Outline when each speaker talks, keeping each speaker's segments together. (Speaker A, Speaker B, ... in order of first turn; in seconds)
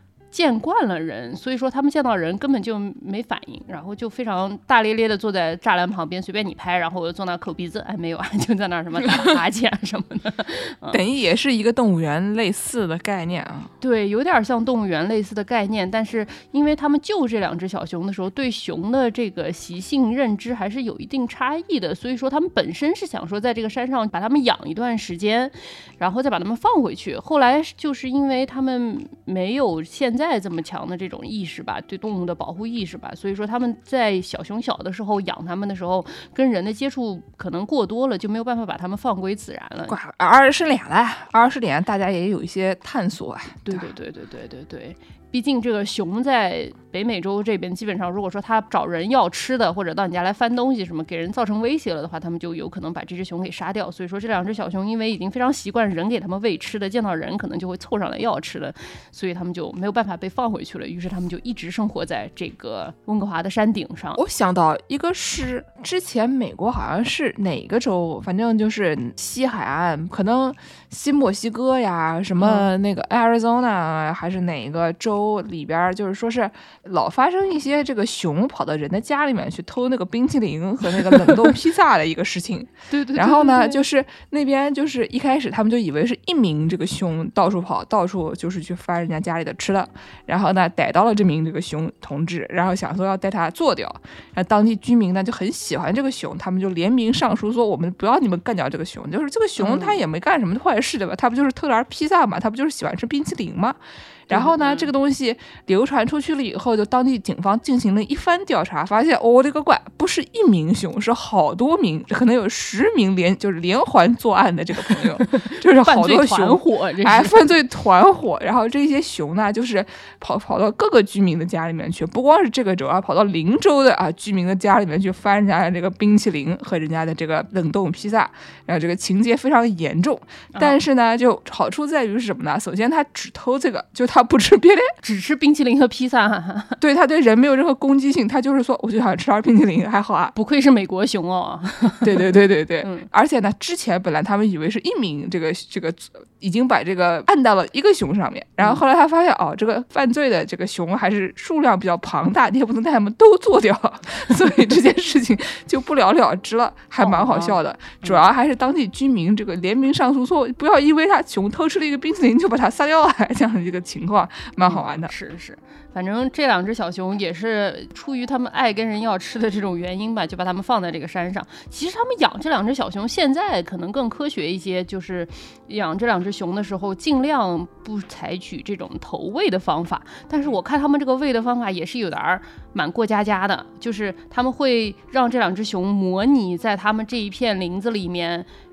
Speaker A: 0.3-11.0, 13.8-40.0, 43.7-64.2, 72.4-72.7, 82.9-83.8, 99.6-100.0, 104.3-104.9, 114.9-117.4, 130.5-130.8, 135.0-136.8, 140.3-142.3, 142.8-143.1, 157.0-158.2, 164.6-188.5
Speaker B: 10.9-13.7, 39.9-43.9, 64.2-134.9, 136.8-140.3, 142.0-165.1